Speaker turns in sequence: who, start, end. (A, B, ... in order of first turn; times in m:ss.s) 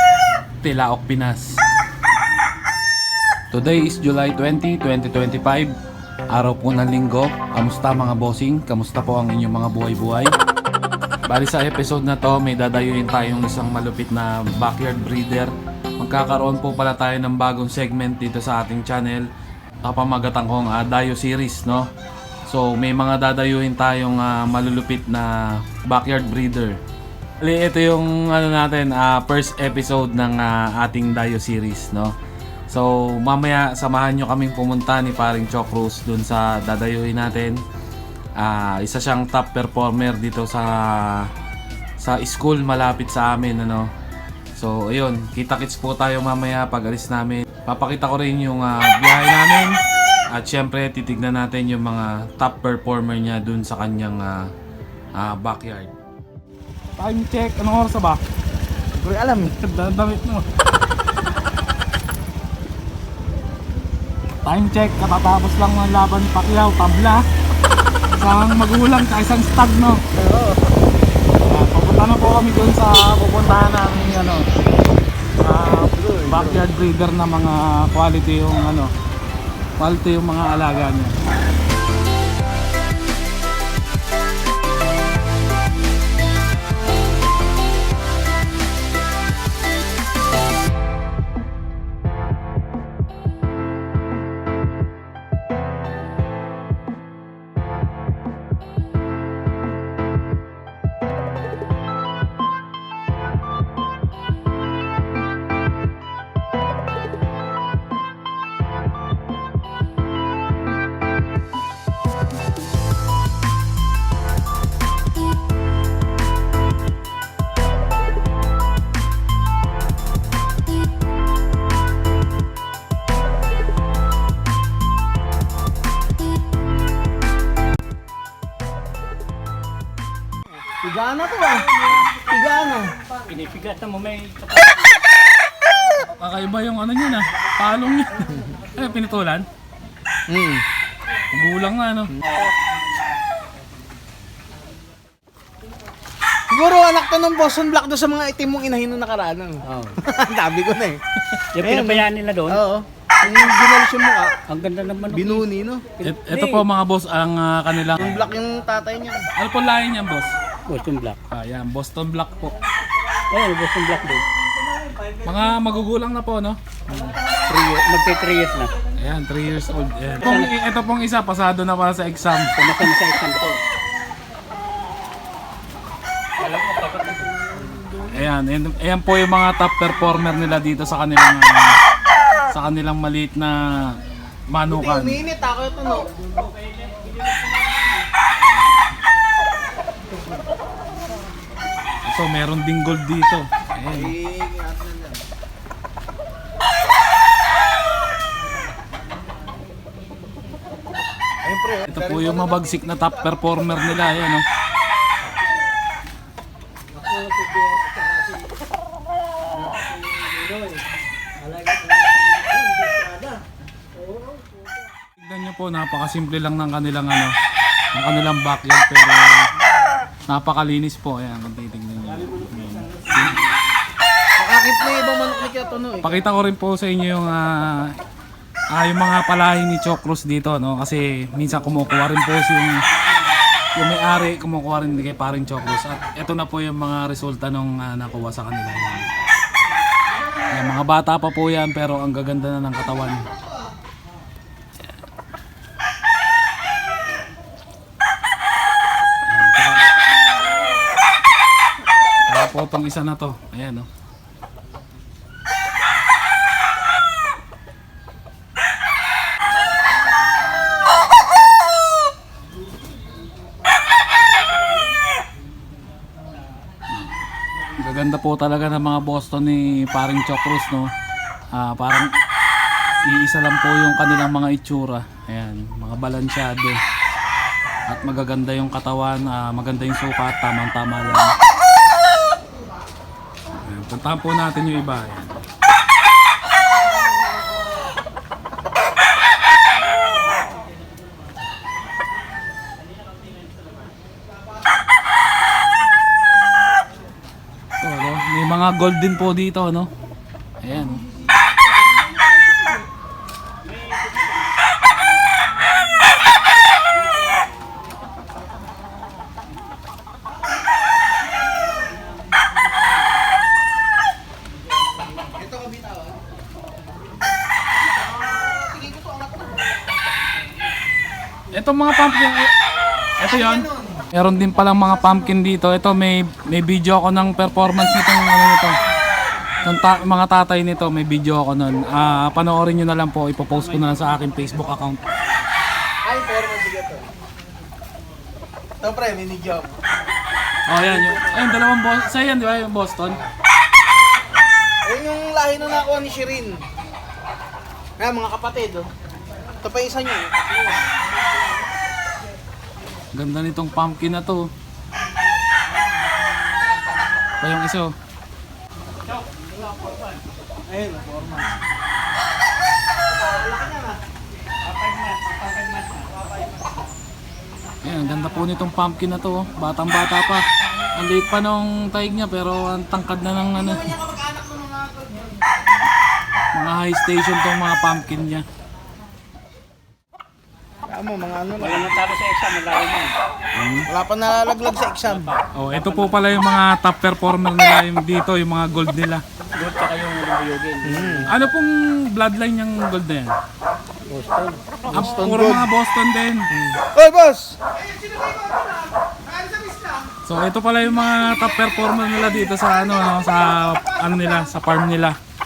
0:00.6-0:01.6 A
0:03.5-0:05.7 A
0:06.3-0:10.3 A
0:11.3-0:19.3 A
0:19.8-0:21.9 A
0:22.5-0:26.8 A
0:27.4-0:32.2 A
0:32.7-0:37.6 A
0:38.4-0:41.3 A
0:42.0-0:43.9 A
0:44.6-0:49.8 A
0:50.3-0:54.4 A
0:55.2-0:55.9 A
0:57.0-0:58.2 A
0:59.0-0:59.6 B
0:59.4-1:00.5 A
1:04.4-1:07.2 A
1:08.2-1:10.0 A
1:10.2-1:10.6 B
1:11.4-1:14.5 A
1:15.4-1:18.9 A
1:15.9-1:16.6 B
1:19.8-1:21.2 A
2:10.7-2:12.9 B
2:13.3-2:14.9 C
2:16.0-2:19.5 A
2:20.3-2:20.6 B
2:21.3-2:22.2 A
2:22.3-2:22.5 C
2:26.5-2:34.4 B
2:29.7-2:30.0 C
2:31.5-2:32.6 C
2:34.5-2:35.4 C
2:35.1-2:35.8 B
2:36.0-2:36.6 C
2:36.0-2:38.3 A
2:38.0-2:39.3 B
2:39.4-2:40.3 A
2:40.7-2:41.2 C
2:41.3-2:42.6 A
2:43.3-2:44.3 C
2:45.2-2:46.6 A
2:46.9-2:48.7 C
2:49.0-2:52.6 A
2:50.2-2:50.5 C
2:52.6-2:53.6 C
2:56.4-2:57.8 C
2:58.1-3:01.7 A
3:02.5-3:04.0 A
3:04.5-3:05.2 A
3:04.7-3:06.1 B
3:12.1-3:14.1 A
3:13.9-3:15.2 B
3:21.4-3:23.6 B
3:21.9-3:24.4 A
3:27.0-3:28.6 C
3:29.5-3:30.8 C
3:31.4-3:33.4 C
3:34.1-3:34.7 C
3:35.2-3:37.4 A
3:37.9-3:39.5 A
3:40.3-3:43.5 A
3:44.4-3:46.1 B
3:46.0-3:48.0 A
3:48.7-3:52.8 A
3:53.8-3:59.1 A
4:00.5-4:03.3 A
4:09.3-4:09.9 A
4:12.3-4:13.9 A
4:27.8-4:30.9 A
4:31.5-4:32.1 A
4:33.1-4:36.8 A
4:37.9-4:41.3 A
4:43.6-4:45.3 A
4:57.8-4:59.9 A
5:00.6-5:01.0 A
5:15.3-5:16.2 B
5:17.8-5:19.9 B
5:21.5-5:22.5 A
5:23.2-5:28.8 A
5:23.2-5:24.1 B
5:29.6-5:35.0 A
5:36.0-5:37.0 B
5:38.8-5:39.7 B
5:40.7-5:43.2 A
5:44.8-5:46.6 B
5:48.0-5:48.9 B
5:49.6-5:50.9 B
5:53.1-5:54.5 A
5:57.4-5:57.9 A
6:00.7-6:01.5 B
6:03.1-6:04.0 B
6:04.6-6:06.2 C
6:07.8-6:13.9 A
6:13.6-6:15.3 B
6:16.5-6:18.4 A
6:20.9-6:21.9 B
6:21.6-6:23.2 C
6:23.6-6:23.9 A
6:23.9-6:25.3 B
6:25.2-6:26.2 C
6:25.5-6:29.2 A
6:29.6-6:31.4 C
6:30.8-6:31.3 B
6:31.3-6:33.4 A
6:34.1-6:34.9 C
6:34.9-6:36.5 A
6:34.9-6:35.7 B
6:36.5-6:40.1 B
6:40.3-6:45.2 A